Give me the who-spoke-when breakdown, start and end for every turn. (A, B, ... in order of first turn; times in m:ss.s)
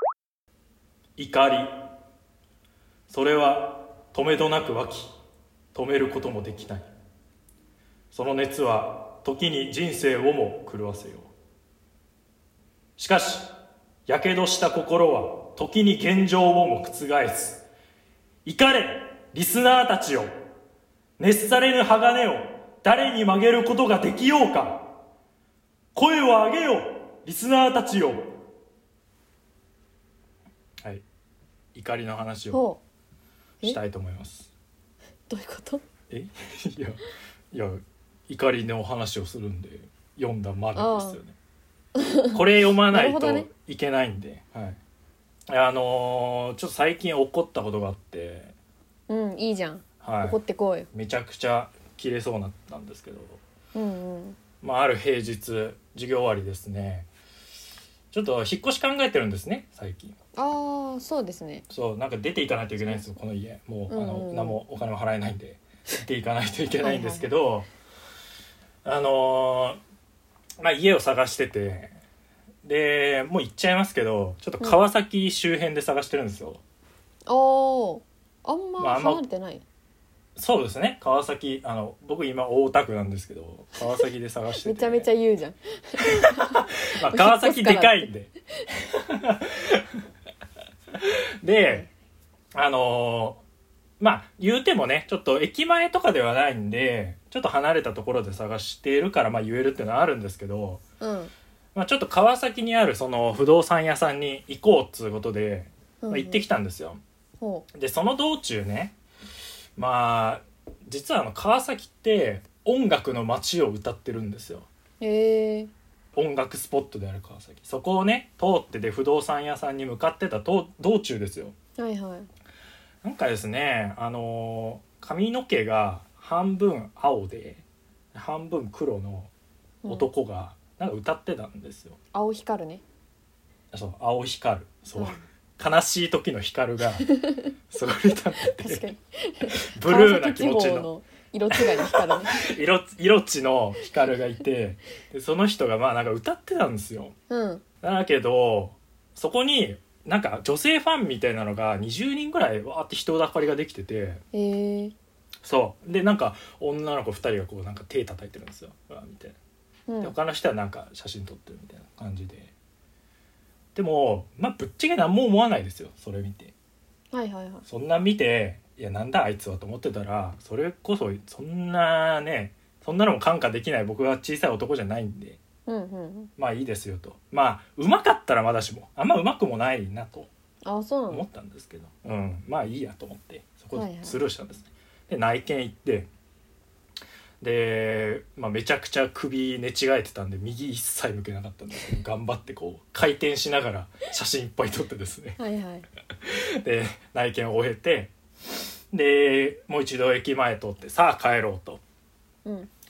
0:01.2-0:01.8 A
0:03.1-0:05.1 A
0:05.7-0:06.9 A
0:08.1-0:11.3 A
0:13.0-0:13.5 A
0:14.1-0:17.6 A
0:18.4-0:20.3 A
0:21.2-0:24.9 A
0:25.9-0:28.3 A
0:31.7-0:32.6 A
0:32.5-0:32.8 B
0:33.6-0:34.5 A
0:35.3-0:35.8 B
0:36.1-0:41.4 A
0:40.8-0:41.2 B
0:42.0-0:42.4 B
0:42.3-0:44.8 A
0:42.9-0:43.5 B
0:45.5-0:48.5 A
0:49.1-0:50.9 B
0:50.0-0:50.4 A
0:50.9-0:53.4 A
0:53.7-0:54.4 B
0:54.6-0:57.1 A
0:58.1-1:00.2 A
1:00.4-1:01.6 B
1:01.7-1:07.7 A
1:03.9-1:04.6 B
1:06.8-1:07.3 B
1:08.8-1:09.8 A
1:10.6-1:12.0 A
1:12.6-1:16.6 A
1:17.3-1:19.6 B
1:18.8-1:19.2 A
1:20.4-1:25.1 A
1:24.6-1:28.1 B
1:26.0-1:30.0 A
1:30.9-1:31.8 A
1:31.6-1:31.9 B
1:32.5-1:33.4 A
1:34.0-1:40.8 A
1:41.0-1:41.3 B
1:41.7-1:47.0 A
1:46.0-1:46.4 B
1:47.4-1:47.7 B
1:47.7-1:49.0 A
1:49.8-1:54.7 A
1:55.0-1:55.7 B
1:56.1-2:01.5 A
2:01.8-2:02.3 B
2:03.0-2:09.3 A
2:09.8-2:10.1 B
2:09.8-2:12.0 A
2:12.1-2:12.8 B
2:13.7-2:17.1 A
2:14.9-2:15.2 B
2:17.0-2:17.5 B
2:17.7-2:18.9 A
2:18.4-2:22.4 B
2:19.5-2:20.9 A
2:21.5-2:27.1 A
2:27.3-2:27.6 B
2:27.8-2:34.2 A
2:34.3-2:34.9 B
2:35.4-2:39.4 A
2:39.9-2:40.1 B
2:40.0-2:42.5 A
2:43.7-2:46.5 A
2:47.1-2:47.6 B
2:47.6-2:55.4 A
2:55.7-2:56.3 B
2:56.4-3:00.3 A
3:00.6-3:01.2 B
3:01.1-3:06.1 A
3:03.7-3:04.2 B
3:07.4-3:15.4 A
3:15.4-3:15.8 B
3:16.2-3:18.1 A
3:18.9-3:21.8 A
3:22.4-3:22.7 B